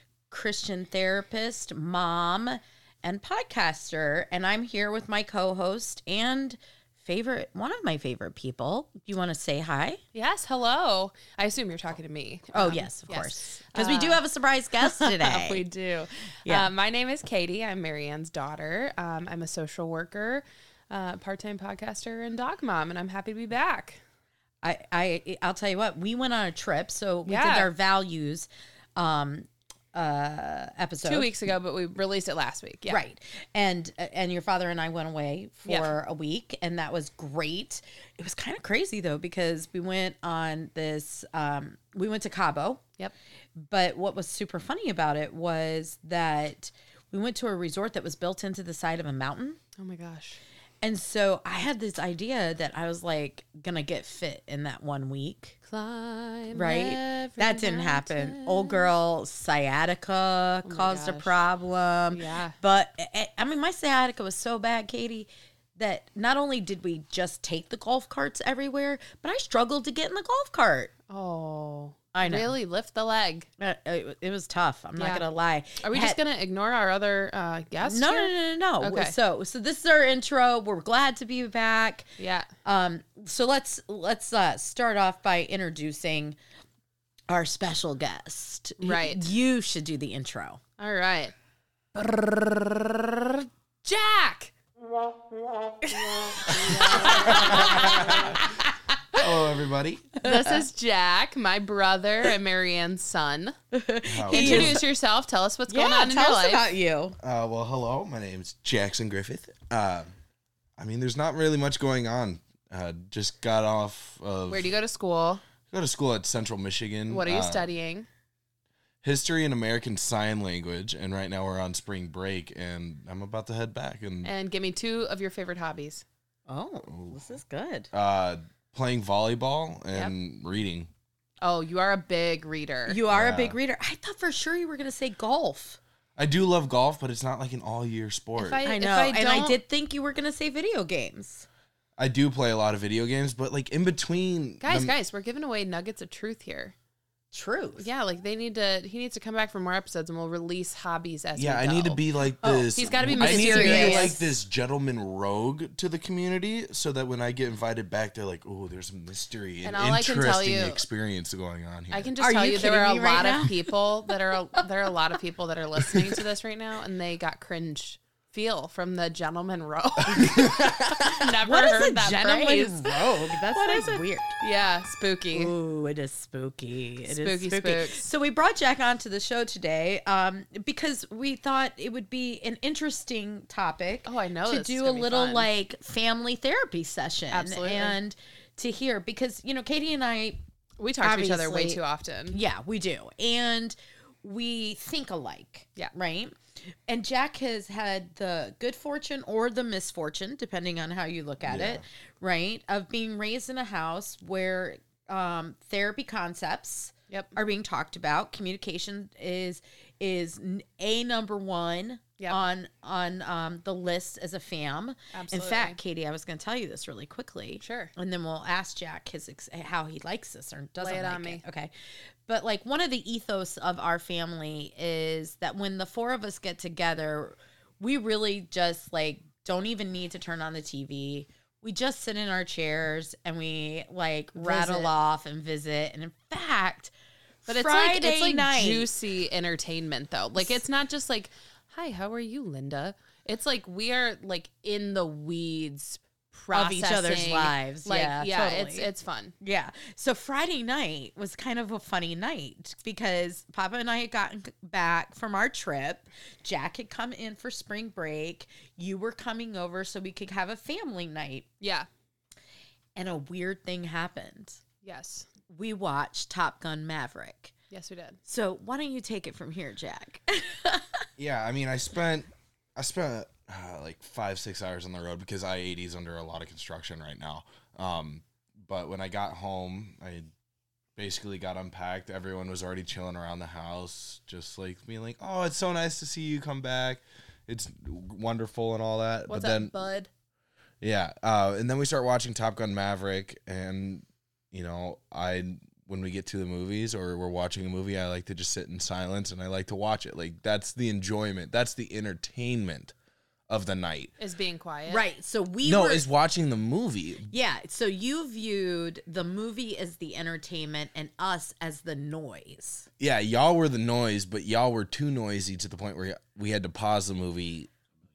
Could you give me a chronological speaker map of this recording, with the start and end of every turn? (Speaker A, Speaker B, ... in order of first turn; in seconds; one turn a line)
Speaker A: 0.3-10.0
Speaker B: 10.1-14.2
Speaker A: 12.5-15.7
Speaker B: 14.8-24.0
Speaker A: 24.6-31.3
Speaker B: 27.3-27.7
Speaker B: 31.0-33.0
Speaker A: 32.9-42.8
Speaker A: 43.6-49.6
Speaker B: 49.8-50.4
Speaker A: 50.8-55.6
Speaker B: 55.7-58.9
Speaker A: 56.5-70.9
Speaker B: 60.7-61.4
Speaker B: 62.1-62.5
Speaker B: 71.1-73.5
Speaker A: 72.1-72.5
Speaker A: 73.6-76.2
Speaker B: 75.0-75.2
Speaker B: 75.8-79.1
Speaker A: 77.8-82.1
Speaker B: 82.2-82.5
Speaker A: 82.7-86.4
Speaker A: 87.3-90.6
Speaker B: 88.8-89.3
Speaker B: 90.8-91.3
Speaker B: 91.9-94.5
Speaker C: 96.6-98.4
Speaker B: 96.6-98.2
Speaker A: 96.7-98.2
Speaker C: 99.1-100.1
Speaker B: 100.2-103.5
Speaker A: 100.2-100.6
Speaker A: 103.7-104.8
Speaker C: 104.0-104.8
Speaker B: 104.3-106.7
Speaker A: 105.7-107.2
Speaker C: 107.2-110.1
Speaker C: 110.8-114.8
Speaker B: 114.5-115.4
Speaker C: 115.7-117.7
Speaker B: 117.1-118.1
Speaker C: 119.0-124.3
Speaker B: 124.2-126.0
Speaker A: 126.5-127.9
Speaker C: 126.9-127.2
Speaker C: 127.9-130.9
Speaker B: 131.4-133.0
Speaker A: 132.9-135.8
Speaker C: 133.1-133.6
Speaker C: 136.2-138.6
Speaker B: 138.4-139.6
Speaker A: 138.6-141.5
Speaker C: 142.0-144.9
Speaker B: 144.6-146.8
Speaker A: 147.3-147.9
Speaker B: 147.8-152.0
Speaker C: 151.4-162.1
Speaker A: 152.4-154.3
Speaker B: 152.8-154.1
Speaker B: 159.7-160.8
Speaker B: 161.9-175.5
Speaker A: 162.2-163.7
Speaker A: 165.8-166.2
Speaker C: 170.1-170.9
Speaker A: 170.2-174.4
Speaker A: 175.3-190.4
Speaker B: 177.1-178.1
Speaker B: 184.1-185.5
Speaker B: 187.3-188.0
Speaker B: 190.8-192.4
Speaker A: 191.0-221.7
Speaker C: 201.4-201.8
Speaker B: 215.1-215.8
Speaker B: 217.6-217.9
Speaker B: 220.8-221.4
Speaker A: 222.3-236.9
Speaker B: 234.4-234.9
Speaker A: 237.5-238.9
Speaker B: 237.5-249.3
Speaker A: 246.5-248.9
Speaker A: 249.4-261.5
Speaker B: 261.6-261.9
Speaker A: 263.0-264.6
Speaker B: 264.8-265.3
Speaker A: 265.5-267.5
Speaker B: 267.7-268.2
Speaker A: 268.2-271.0
Speaker C: 271.2-280.3
Speaker C: 281.0-289.7
Speaker B: 289.3-290.1
Speaker C: 290.8-302.9
Speaker C: 303.5-304.1
Speaker B: 304.2-305.0
Speaker A: 304.9-306.1
Speaker C: 305.6-307.3
Speaker A: 307.3-312.9
Speaker C: 313.0-317.7